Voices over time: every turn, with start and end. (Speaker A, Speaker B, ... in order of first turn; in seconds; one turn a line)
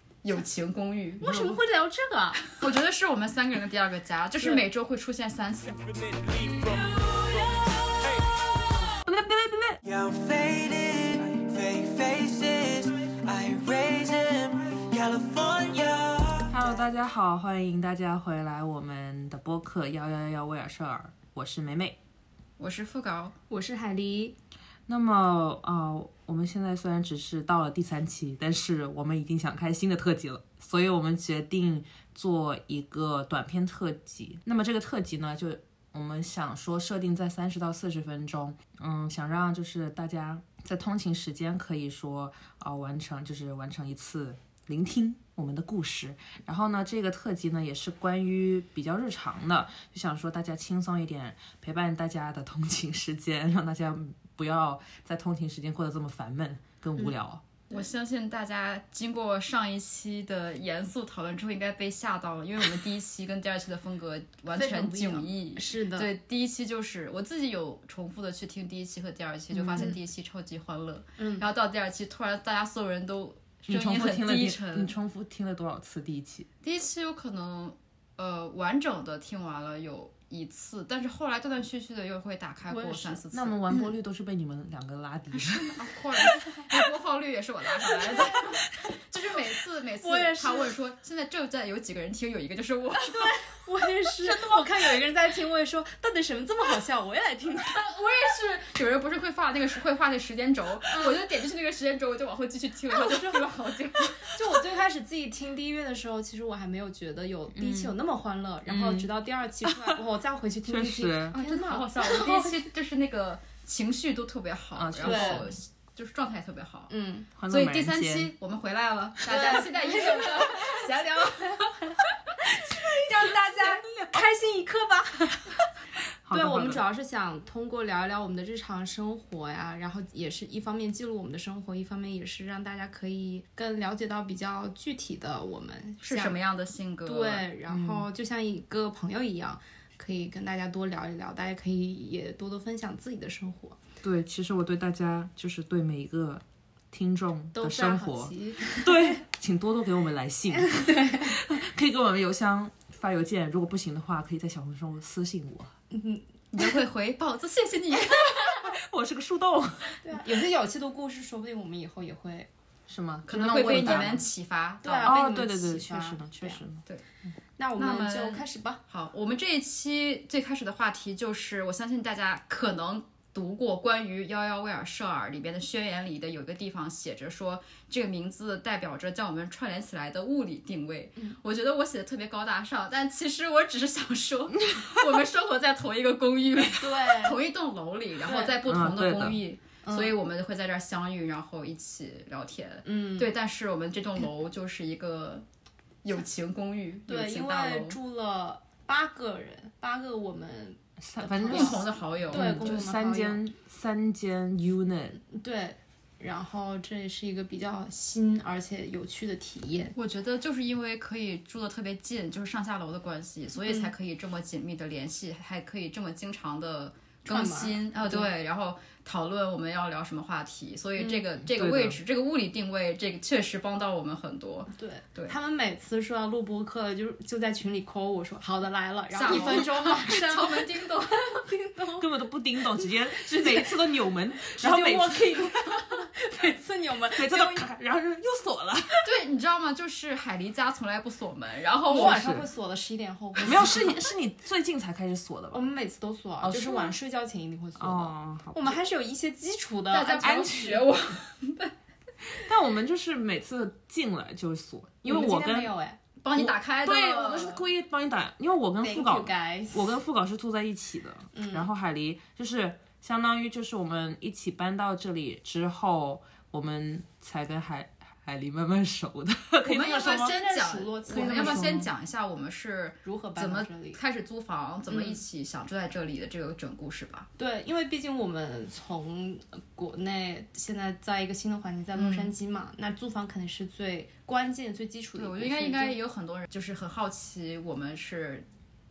Speaker A: 0.2-1.3
Speaker B: 1.2-2.6
Speaker C: 1.2-1.6
Speaker A: 2.5-6.0
Speaker D: 6.5-8.3
Speaker C: 9.0-9.8
Speaker D: 9.8-16.8
Speaker C: 16.5-22.0
Speaker A: 22.6-23.3
Speaker B: 23.5-24.4
Speaker C: 24.9-57.4
Speaker A: 57.7-74.9
Speaker B: 64.5-66.1
Speaker B: 69.5-70.0
Speaker B: 71.2-71.4
Speaker C: 73.7-76.5
Speaker A: 76.6-83.6
Speaker B: 82.7-83.2
Speaker C: 83.3-85.8
Speaker A: 85.3-93.4
Speaker B: 90.0-90.7
Speaker B: 93.1-97.8
Speaker A: 97.7-104.4
Speaker B: 100.9-101.2
Speaker B: 102.9-103.4
Speaker B: 104.2-112.6
Speaker C: 107.5-108.0
Speaker C: 108.7-109.1
Speaker C: 109.6-110.0
Speaker C: 110.6-111.3
Speaker A: 111.3-116.9
Speaker C: 114.8-115.5
Speaker B: 115.0-115.5
Speaker B: 116.9-117.3
Speaker C: 117.4-118.3
Speaker A: 117.5-121.8
Speaker B: 119.2-125.6
Speaker C: 122.7-124.3
Speaker C: 126.2-126.8
Speaker B: 126.3-136.4
Speaker A: 136.0-137.4
Speaker B: 137.0-143.8
Speaker C: 137.7-138.1
Speaker C: 144.0-155.7
Speaker B: 147.5-149.2
Speaker B: 150.5-151.4
Speaker B: 155.9-156.7
Speaker A: 156.5-158.7
Speaker C: 158.4-160.0
Speaker B: 160.0-162.5
Speaker C: 162.9-164.2
Speaker A: 163.3-165.2
Speaker B: 163.4-164.2
Speaker B: 164.8-166.6
Speaker C: 165.0-166.8
Speaker B: 167.6-168.8
Speaker A: 167.8-195.4
Speaker B: 186.7-187.4
Speaker B: 188.2-188.6
Speaker C: 188.6-189.4
Speaker B: 189.8-190.2
Speaker B: 192.8-193.3
Speaker A: 196.0-198.0
Speaker B: 197.1-203.4
Speaker C: 201.0-205.2
Speaker A: 201.5-202.8
Speaker B: 205.3-209.9
Speaker A: 209.9-225.3
Speaker B: 213.7-213.9
Speaker B: 217.3-218.3
Speaker C: 221.4-222.0
Speaker B: 224.7-232.1
Speaker A: 229.1-231.4
Speaker C: 232.0-235.6
Speaker B: 232.8-237.7
Speaker C: 237.2-239.0
Speaker A: 239.0-242.2
Speaker B: 241.9-244.1
Speaker C: 241.9-242.5
Speaker C: 243.4-245.7
Speaker B: 245.5-250.9
Speaker C: 246.4-246.9
Speaker C: 247.8-248.8
Speaker A: 249.9-251.7
Speaker C: 250.2-250.8
Speaker C: 252.4-255.7
Speaker B: 255.0-256.0
Speaker A: 256.2-257.6
Speaker C: 256.3-270.3
Speaker B: 258.8-259.9
Speaker B: 261.3-261.7
Speaker A: 269.6-277.3
Speaker B: 269.8-271.8
Speaker C: 271.1-271.9
Speaker B: 273.0-274.0
Speaker B: 274.9-275.2
Speaker B: 277.4-286.0
Speaker A: 281.9-282.3
Speaker A: 285.2-288.4